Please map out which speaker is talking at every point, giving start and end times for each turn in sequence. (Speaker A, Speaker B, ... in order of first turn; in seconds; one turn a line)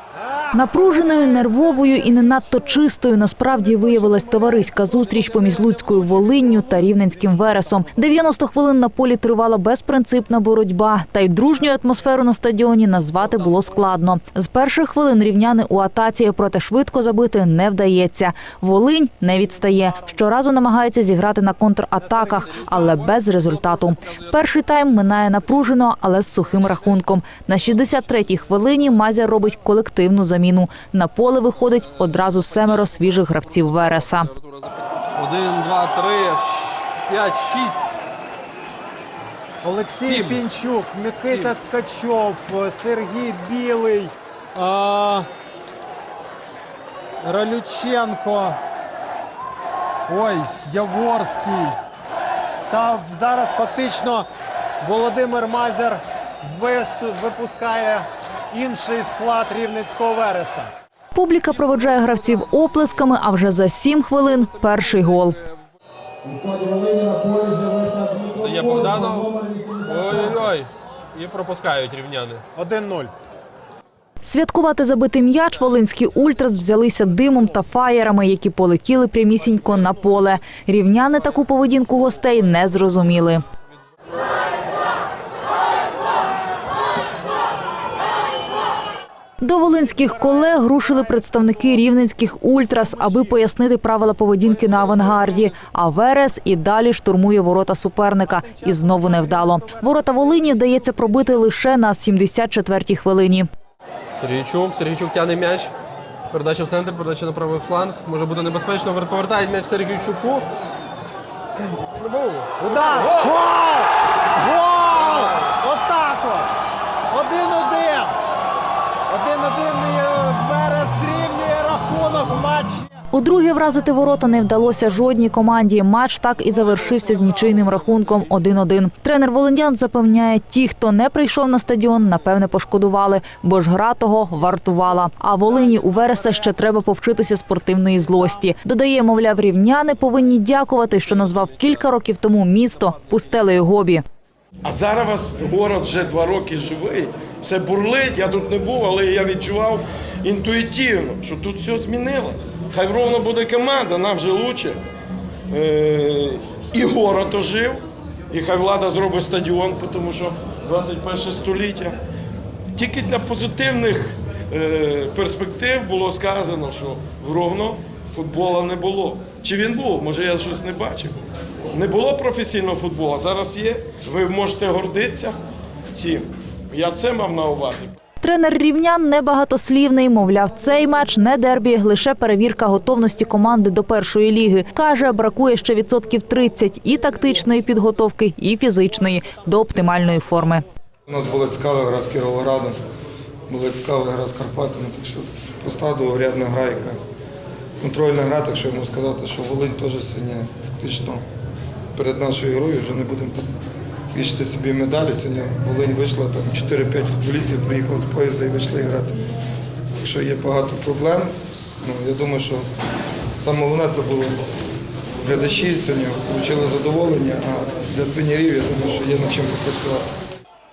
Speaker A: 0.5-34.3
Speaker B: 35.1-37.9
Speaker C: 39.6-45.3
Speaker B: 40.0-40.4
Speaker B: 41.2-41.6
Speaker C: 47.2-48.6
Speaker C: 50.1-51.8
Speaker C: 52.7-54.3
Speaker C: 54.8-60.7
Speaker A: 61.1-65.4
Speaker C: 66.2-70.5
Speaker B: 68.3-69.3
Speaker B: 69.8-72.4
Speaker C: 72.5-73.1
Speaker A: 74.2-83.4
Speaker A: 89.4-103.5
Speaker B: 104.2-105.7
Speaker B: 106.3-110.5
Speaker B: 112.0-113.0
Speaker C: 112.6-116.5
Speaker C: 117.1-118.2
Speaker C: 119.1-122.9
Speaker A: 123.1-144.0
Speaker D: 144.6-154.8
Speaker D: 155.5-162.0
Speaker D: 162.8-171.2
Speaker D: 171.7-175.4
Speaker D: 175.9-178.0
Speaker A: 178.2-190.6
Speaker E: 191.1-192.8
Speaker E: 193.5-197.0
Speaker E: 197.8-201.2
Speaker E: 201.9-203.5
Speaker E: 204.1-209.2
Speaker E: 210.0-211.3
Speaker E: 211.8-212.7
Speaker E: 213.4-214.4
Speaker E: 215.2-220.1